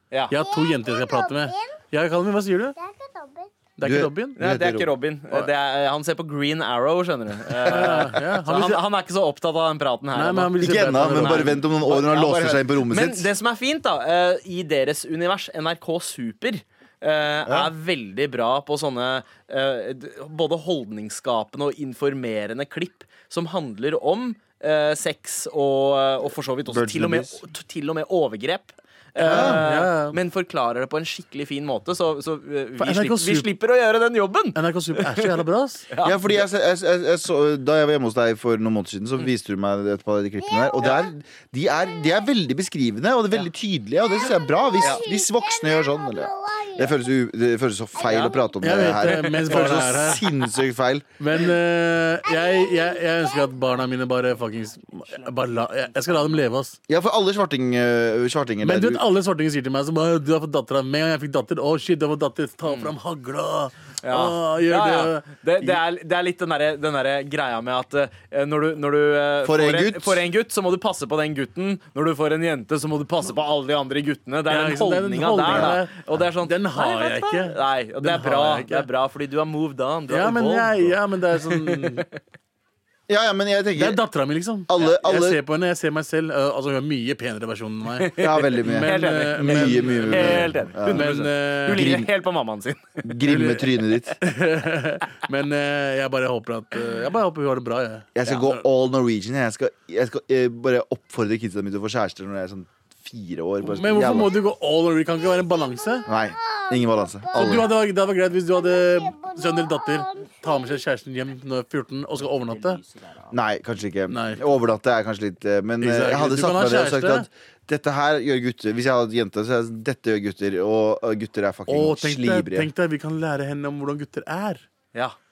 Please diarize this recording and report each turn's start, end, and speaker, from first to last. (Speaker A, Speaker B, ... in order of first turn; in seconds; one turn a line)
Speaker A: 0.1-0.4
Speaker B: 0.3-2.8
Speaker C: 0.3-1.8
Speaker C: 2.8-3.5
Speaker B: 3.8-4.4
Speaker D: 3.8-4.9
Speaker A: 4.4-36.4
Speaker B: 7.7-8.8
Speaker D: 7.7-8.1
Speaker B: 10.2-11.6
Speaker D: 10.6-13.3
Speaker D: 17.5-17.7
Speaker D: 26.7-27.4
Speaker B: 29.2-30.2
Speaker D: 29.3-29.6
Speaker B: 32.8-33.5
Speaker B: 34.5-35.9
Speaker D: 36.0-51.1
Speaker C: 40.4-41.0
Speaker C: 44.1-47.0
Speaker C: 48.0-48.8
Speaker A: 48.0-48.4
Speaker B: 48.6-50.2
Speaker A: 48.9-50.3
Speaker B: 51.2-56.8
Speaker C: 52.2-53.8
Speaker D: 56.9-59.0
Speaker B: 58.6-65.8
Speaker A: 62.6-62.9
Speaker A: 64.0-82.1
Speaker D: 69.4-70.2
Speaker B: 74.5-78.9
Speaker D: 75.5-75.8
Speaker B: 80.1-82.1
Speaker D: 83.1-84.0
Speaker B: 83.8-92.0
Speaker D: 84.7-85.4
Speaker A: 88.0-93.2
Speaker D: 88.2-91.2
Speaker D: 91.7-92.1
Speaker D: 93.0-94.2
Speaker B: 93.3-98.6
Speaker D: 98.2-104.3
Speaker B: 103.6-106.1
Speaker C: 105.5-107.7
Speaker D: 106.1-107.7
Speaker B: 107.3-112.8
Speaker C: 108.3-110.8
Speaker D: 113.3-122.7
Speaker B: 114.1-114.4
Speaker B: 115.8-117.3
Speaker B: 121.7-124.6